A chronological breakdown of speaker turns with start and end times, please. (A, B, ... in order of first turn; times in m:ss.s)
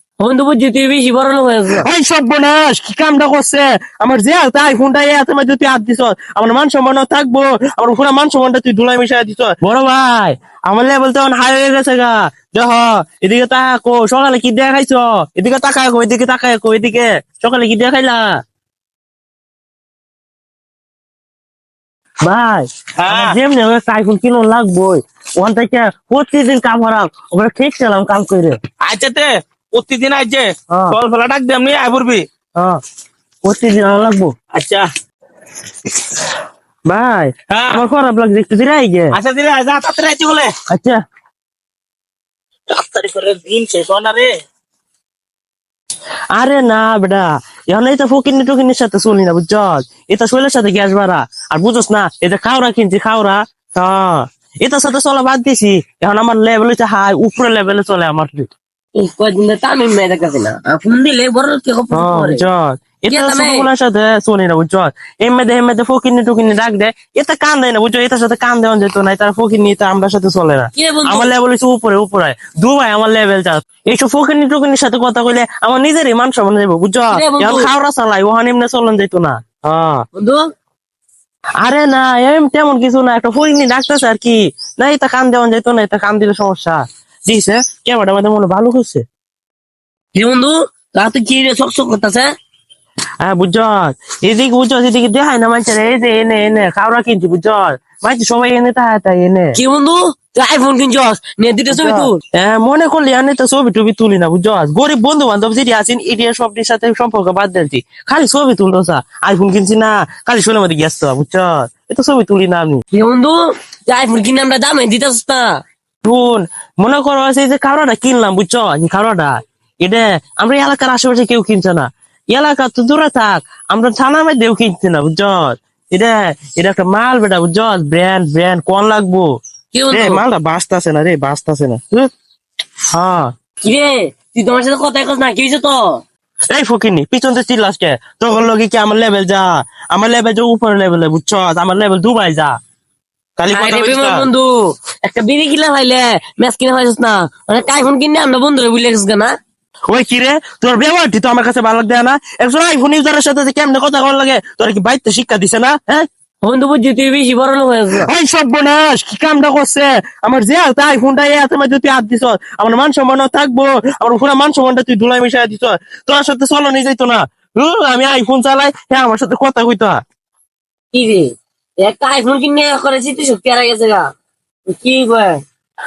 0:00.2-0:01.8 A
0:01.8-0:18.2 B
0:22.2-0:28.6 B
0:23.0-0:23.3 C
0:28.8-0:32.2 C
0:33.4-0:34.3 B
0:34.5-0:34.8 C
0:36.9-0:39.1 B
0:37.5-0:37.8 C
0:39.1-0:40.5 C
0:40.7-0:41.0 B
0:42.7-0:44.3 C
0:46.3-0:58.5 B
0:59.0-1:02.4 A
1:01.9-1:20.0 B
1:03.1-1:03.7 A
1:10.7-1:11.3 A
1:17.1-1:17.7 A
1:20.2-1:20.5 A
1:21.6-1:29.0 B
1:30.1-1:32.3 A
1:33.2-1:39.6 B
1:39.6-1:42.2 A
1:41.7-1:52.8 B
1:52.9-1:55.5 A
1:56.0-2:09.3 B
2:09.7-2:10.2 A
2:09.9-2:12.1 B
2:12.9-2:13.3 B
2:13.6-2:16.0 A
2:16.5-2:22.5 B
2:23.4-2:24.2 B
2:23.5-2:29.3 A
2:29.9-2:36.1 B
2:36.4-2:38.1 A
2:37.9-2:50.0 B
2:50.9-2:51.3 A
2:51.8-2:54.1 A
2:54.7-2:55.4 A